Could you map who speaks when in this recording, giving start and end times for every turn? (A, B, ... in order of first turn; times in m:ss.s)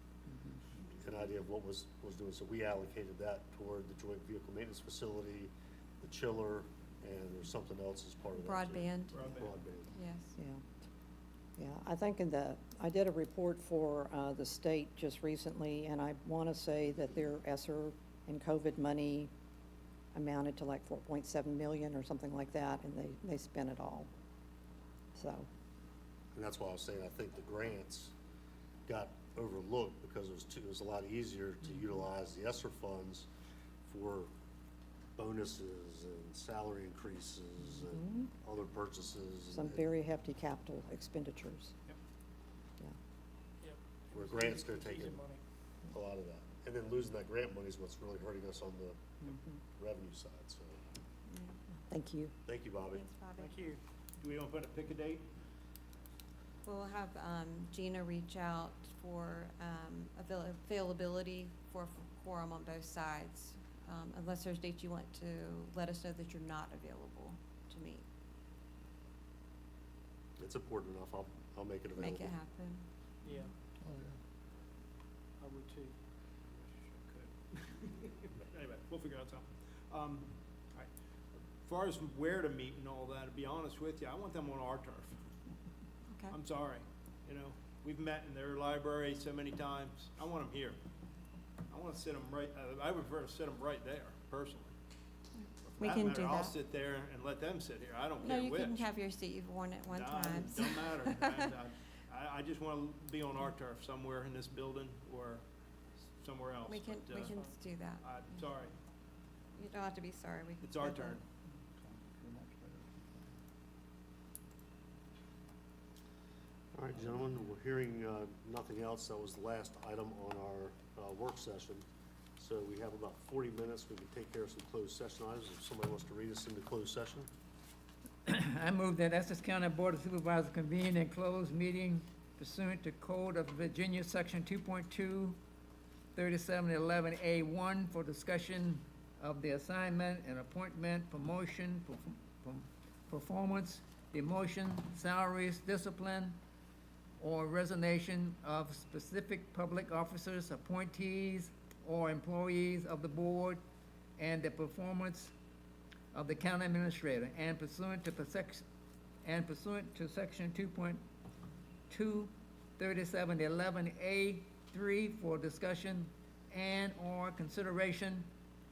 0:00.3-0:00.6 A
0:00.9-0:09.9 B
0:08.4-0:10.4 C
0:09.1-0:09.5 D
0:10.4-0:10.6 A
0:11.6-0:19.3 A
0:20.1-0:24.1 A
0:25.2-0:25.5 A
0:26.3-0:28.1 B
0:28.9-0:33.3 B
0:33.8-0:34.3 B
0:35.2-0:39.9 B
0:37.9-0:38.3 A
0:39.5-0:41.8 A
0:43.6-0:45.4 E
0:44.1-0:45.2 B
0:45.9-0:49.2 B
0:49.8-0:50.8 B
0:51.3-0:51.6 C
0:51.9-0:52.3 A
0:52.4-0:53.0 B
0:52.9-0:53.6 C
0:53.4-0:53.8 E
0:54.2-0:55.3 D
0:56.6-1:08.0 C
1:10.4-1:12.4 B
1:12.0-1:12.8 C
1:13.2-1:13.5 E
1:13.8-1:14.2 F
1:15.4-1:16.0 E
1:16.6-1:20.9 D
1:21.6-1:25.2 D
1:26.3-1:30.8 D
1:31.7-1:34.7 D
1:35.4-1:36.6 C
1:35.6-1:38.9 D
1:38.2-1:41.5 C
1:39.9-1:45.4 D
1:46.2-1:47.3 D
1:46.7-1:48.4 C
1:48.0-1:48.8 D
1:49.6-1:51.2 C
1:50.6-1:51.2 D
1:51.7-1:53.4 F
1:56.8-2:01.8 B
2:02.4-2:07.3 B
2:08.3-2:15.4 G
2:16.2-2:26.4 G
2:27.2-2:33.6 G
2:34.2-2:35.3 G
2:36.1-2:38.6 G
2:39.2-2:41.0 G
2:41.9-2:48.3 G